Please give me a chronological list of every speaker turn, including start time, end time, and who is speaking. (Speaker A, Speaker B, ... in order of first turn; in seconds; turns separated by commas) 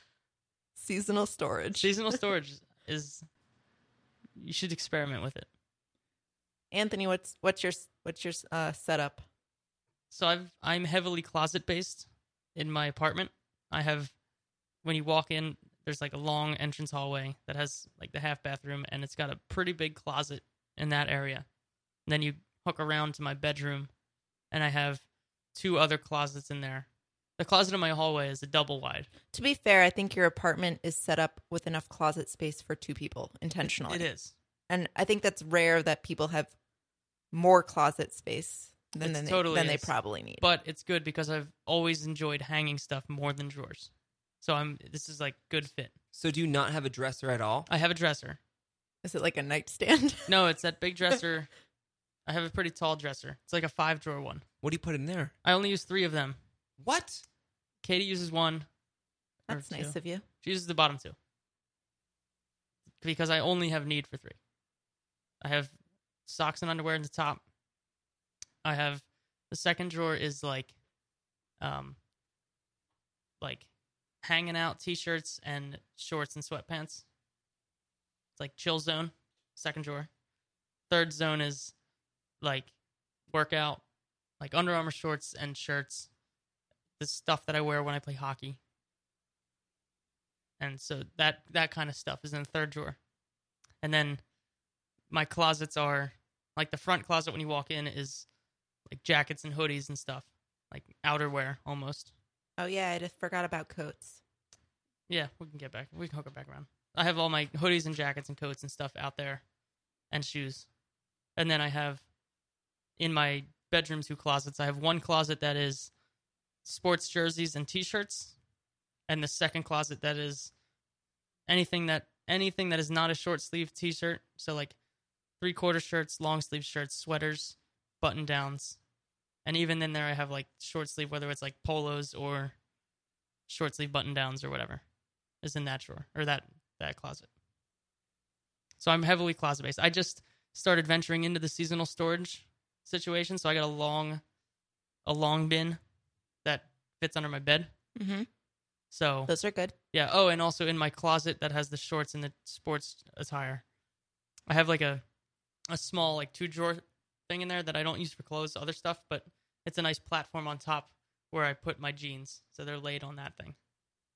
Speaker A: 0.8-1.9, Speaker B: 1.8-3.2, Speaker B: 4.4-5.5, Speaker A: 6.7-9.2, Speaker B: 10.1-14.1, Speaker B: 14.8-21.5, Speaker B: 22.1-23.9, Speaker B: 24.5-26.9, Speaker B: 27.4-29.1, Speaker A: 29.3-34.1, Speaker B: 33.8-34.3, Speaker A: 34.7-36.5, Speaker A: 37.3-40.5, Speaker B: 39.0-43.9, Speaker B: 44.4-45.9, Speaker C: 46.1-47.7, Speaker B: 47.7-48.4, Speaker A: 49.0-50.4, Speaker B: 50.3-51.5, Speaker B: 52.3-54.5, Speaker C: 54.6-55.3, Speaker B: 55.5-56.4, Speaker C: 56.8-57.2, Speaker B: 57.8-58.7, Speaker A: 59.5-60.2, Speaker B: 59.5-61.2, Speaker B: 63.0-64.4, Speaker B: 65.4-65.8, Speaker B: 66.3-67.4, Speaker B: 68.6-70.8, Speaker B: 71.6-72.0, Speaker B: 73.4-73.7, Speaker B: 74.2-77.0, Speaker B: 78.4-80.1, Speaker B: 80.9-81.7, Speaker B: 82.4-82.7, Speaker B: 83.3-83.8, Speaker B: 84.4-86.1, Speaker B: 87.0-88.6, Speaker B: 90.6-93.0, Speaker B: 93.8-94.2, Speaker B: 95.1-98.3, Speaker B: 98.9-102.1, Speaker A: 102.6-104.2, Speaker B: 105.1-109.4, Speaker B: 110.1-110.7, Speaker B: 111.4-112.0, Speaker B: 113.0-115.9, Speaker B: 116.7-118.3, Speaker B: 119.1-120.5, Speaker B: 121.5-124.8, Speaker B: 125.4-128.8, Speaker B: 129.4-132.6, Speaker B: 133.5-134.8, Speaker B: 135.4-137.3, Speaker B: 138.8-144.2, Speaker B: 145.1-145.8, Speaker B: 146.4-147.7, Speaker A: 148.0-148.3, Speaker B: 148.9-149.3, Speaker A: 149.3-149.7, Speaker B: 149.9-153.6, Speaker B: 154.5-155.0, Speaker B: 155.7-163.6